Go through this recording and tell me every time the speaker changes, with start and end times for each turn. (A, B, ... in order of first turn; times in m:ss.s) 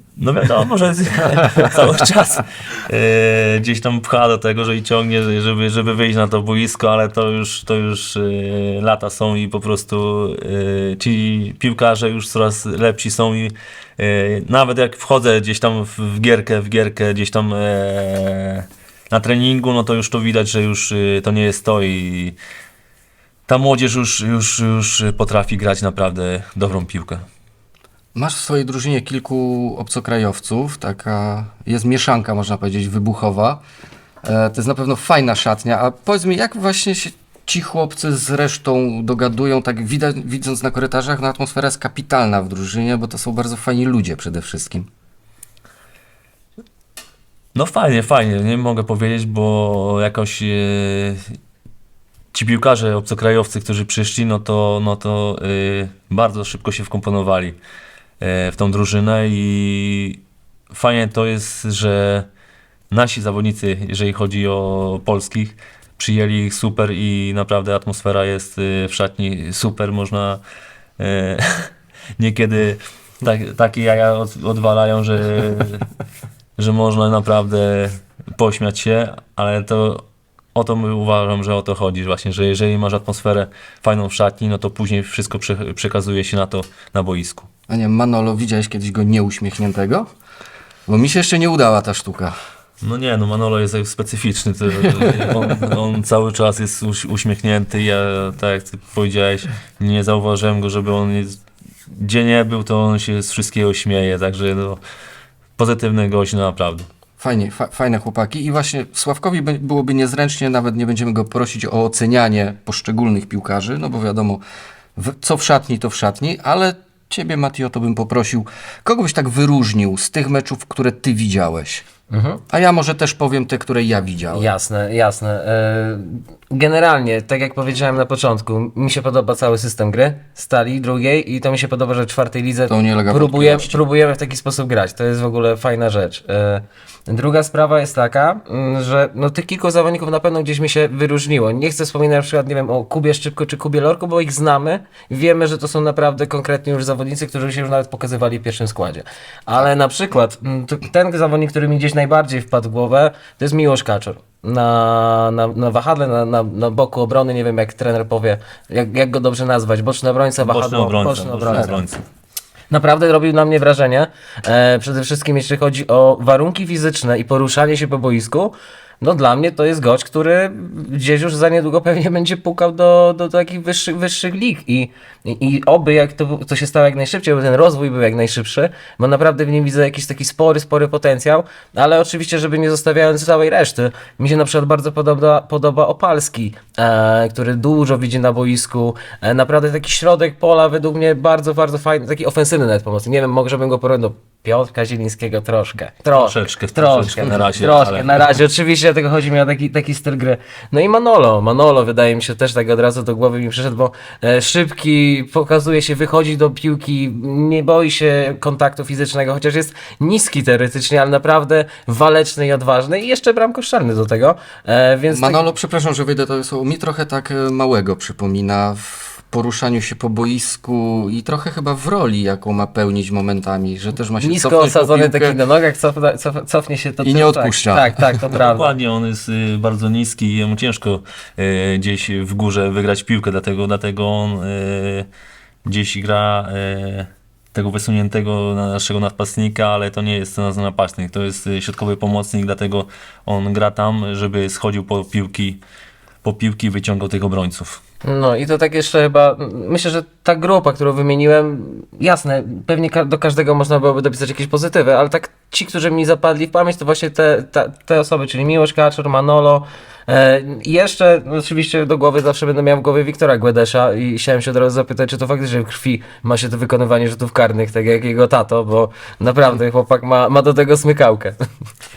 0:00.2-0:22.4 A
0:23.5-0:27.3 A
0:28.2-0:33.6 B
0:34.2-0:44.9 B
0:47.6-0:51.2 A
0:52.3-0:57.6 A
0:58.2-1:02.3 A
1:02.9-1:10.4 A
1:11.0-1:15.9 A
1:16.6-1:27.5 A
1:27.7-1:30.1 B
1:30.9-1:32.3 B
1:32.8-1:44.8 A
1:45.6-1:46.9 A
1:47.2-1:54.4 B
1:55.0-2:01.8 B
2:02.1-2:02.4 C
2:02.5-2:04.5 B
2:04.3-2:41.8 C
2:12.7-2:13.8 B
2:40.4-2:42.0 A
2:42.7-3:35.4 C
3:16.1-3:18.3 A
3:35.1-3:45.4 B
3:44.2-3:48.6 C
3:47.0-3:47.9 B
3:48.3-3:55.1 A
3:55.6-4:05.6 A
4:06.2-4:07.8 A
4:08.0-4:31.4 C